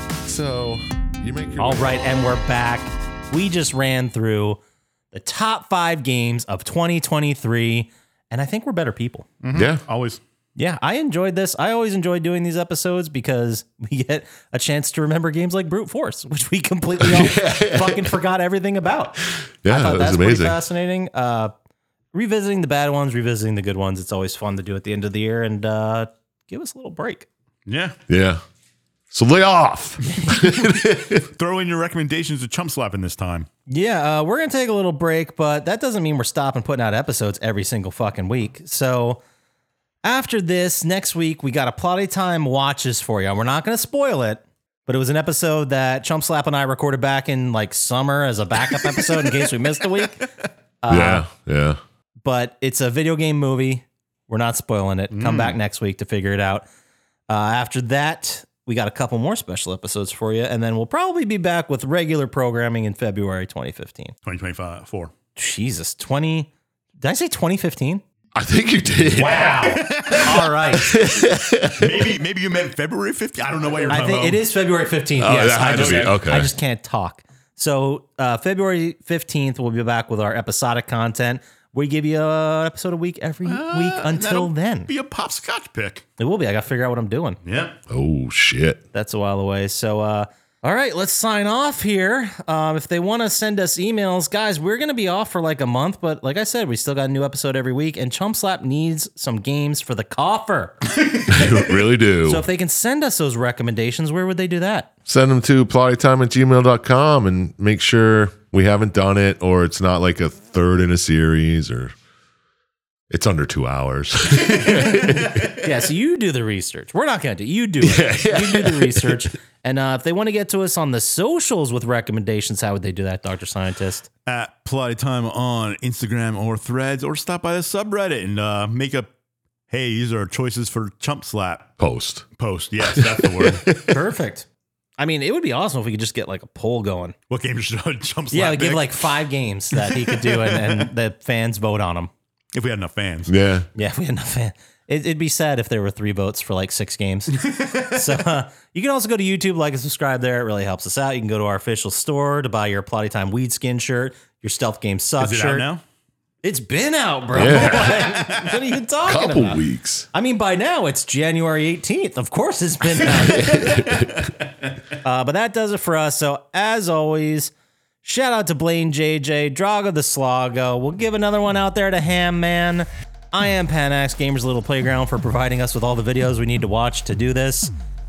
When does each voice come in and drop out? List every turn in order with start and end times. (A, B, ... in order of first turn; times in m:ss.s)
0:00.2-0:02.1 A
0:01.6-0:04.6 B
0:05.1-0:09.3 B
0:09.4-0:10.2 C
0:09.5-0:09.8 A
0:10.6-0:21.5 B
0:17.0-0:18.1 A
0:19.3-0:20.6 A
0:22.1-0:27.3 B
0:27.7-0:28.0 C
0:28.1-0:28.4 A
0:29.1-0:31.3 A
0:30.0-0:30.7 B
0:31.1-0:33.5 C
0:33.7-0:39.2 B
0:40.0-0:50.3 B
0:48.6-0:50.3 C
0:50.8-0:51.3 B
0:50.9-0:51.8 A
0:52.2-0:56.7 B
0:55.1-0:55.6 C
0:57.3-1:04.1 B
1:04.2-1:05.1 C
1:05.4-1:08.0 B
1:08.3-1:12.2 A
1:09.2-1:10.9 B
1:09.2-1:10.8 C
1:11.7-1:14.4 C
1:13.9-1:24.9 B
1:15.2-1:16.5 A
1:15.4-1:16.2 C
1:23.4-1:26.0 C
1:26.2-1:27.4 B
1:27.4-1:27.8 C
1:27.9-1:28.8 A
1:28.9-1:40.9 B
1:41.0-1:41.7 C
1:41.3-1:42.4 A
1:42.2-1:44.9 B
1:45.1-1:51.9 A
1:53.1-1:55.5 A
1:54.7-2:04.1 B
1:57.8-1:59.3 A
2:04.3-2:09.1 C
2:09.7-2:11.7 C
2:11.8-2:12.2 A
2:12.4-2:13.8 C
2:12.8-2:14.0 A
2:13.8-2:14.5 B
2:15.0-2:17.2 B
2:17.3-2:19.2 C
2:18.3-2:22.1 B
2:19.7-2:20.9 C
2:22.5-2:23.3 C
2:23.3-2:23.7 A
2:23.8-2:35.7 B
2:27.3-2:28.0 C
2:35.2-2:35.8 C
2:36.4-2:39.6 B
2:37.3-2:38.2 A
2:39.0-2:40.1 A
2:40.1-2:44.1 B
2:43.2-2:44.3 A
2:45.0-2:47.5 B
2:48.0-2:57.7 B